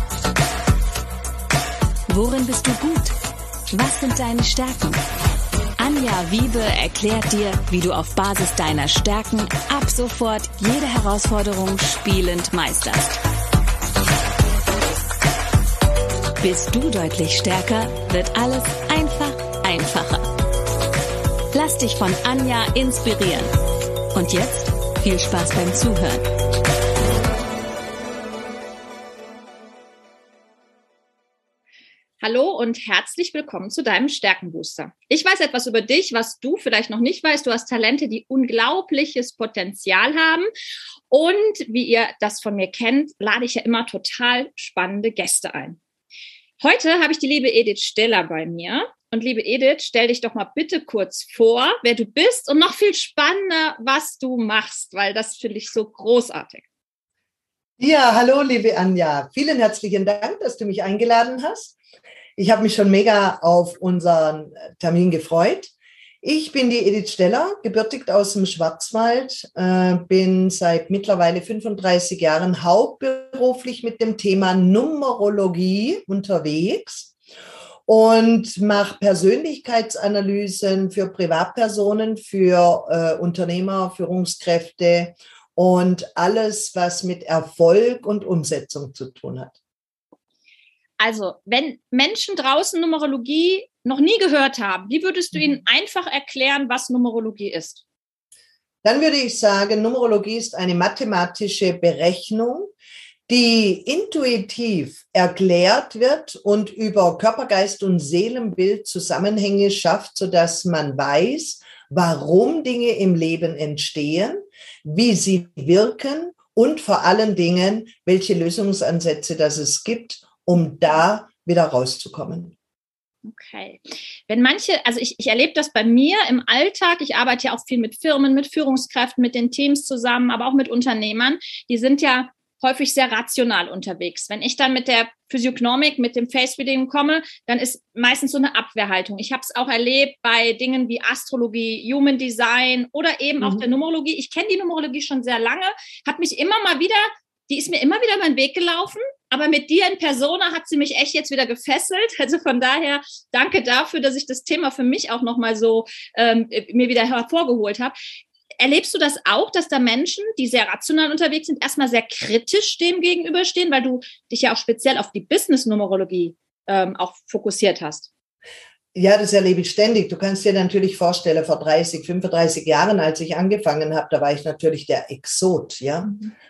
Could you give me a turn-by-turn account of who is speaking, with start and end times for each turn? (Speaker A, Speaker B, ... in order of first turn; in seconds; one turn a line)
Speaker A: 2.1-3.2
Speaker A: 3.7-5.0
Speaker A: 5.8-13.2
Speaker A: 16.4-20.3
Speaker A: 21.5-23.5
Speaker A: 24.1-26.3
Speaker B: 32.2-40.5
Speaker B: 41.1-45.8
Speaker B: 46.6-56.6
Speaker C: 57.8-61.8
Speaker C: 62.4-77.1
Speaker C: 77.9-89.5
Speaker B: 91.0-97.8
Speaker C: 98.8-102.7
Speaker C: 103.3-122.5
Speaker B: 123.2-157.9
Speaker B: 158.6-168.1
Speaker C: 168.9-176.2